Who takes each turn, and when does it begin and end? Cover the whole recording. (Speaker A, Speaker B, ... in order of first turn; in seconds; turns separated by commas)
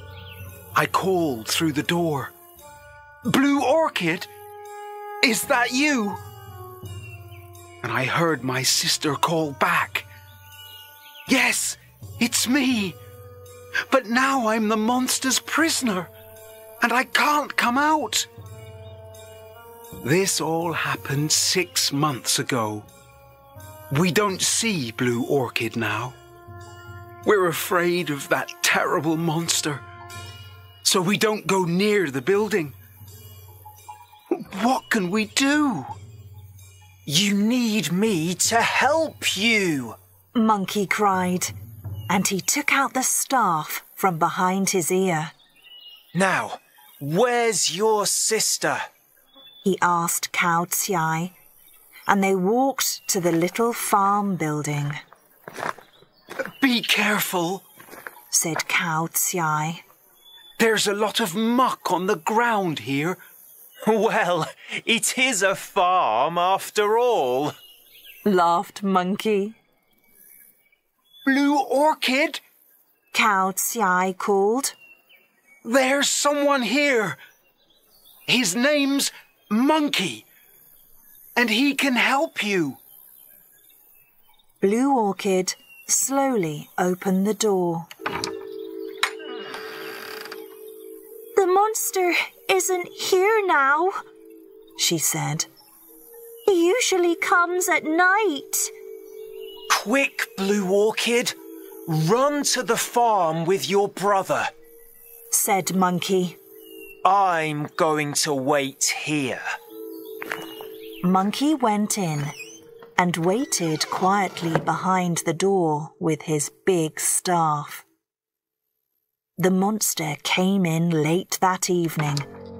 Speaker A: 0.7-2.3, Speaker A: 3.2-4.3, Speaker A: 5.2-6.2, Speaker A: 7.8-10.1, Speaker A: 11.3-13.0, Speaker A: 13.9-16.1, Speaker A: 16.8-18.3, Speaker A: 20.0-22.9, Speaker A: 23.9-26.1, Speaker A: 27.2-29.8, Speaker A: 30.8-32.8, Speaker A: 34.3-35.9, Speaker B: 37.0-40.0, Speaker C: 40.3-41.5, Speaker C: 42.1-45.3, Speaker B: 46.1-48.9, Speaker C: 49.6-51.3, Speaker C: 52.1-55.0, Speaker A: 56.4-57.6, Speaker C: 58.3-59.8, Speaker A: 60.6-63.2, Speaker B: 63.9-67.5, Speaker C: 68.2-69.6, Speaker A: 71.2-72.4, Speaker C: 73.1-74.8, Speaker A: 75.6-77.2, Speaker A: 78.3-80.2, Speaker A: 81.3-82.8, Speaker C: 84.6-87.9, Speaker C: 91.3-94.0, Speaker C: 94.8-95.5, Speaker C: 96.5-98.7, Speaker B: 99.7-101.3, Speaker B: 101.9-104.5, Speaker C: 105.3-106.4, Speaker B: 107.0-109.4, Speaker C: 111.0-112.3, Speaker C: 113.0-117.8, Speaker C: 119.4-122.3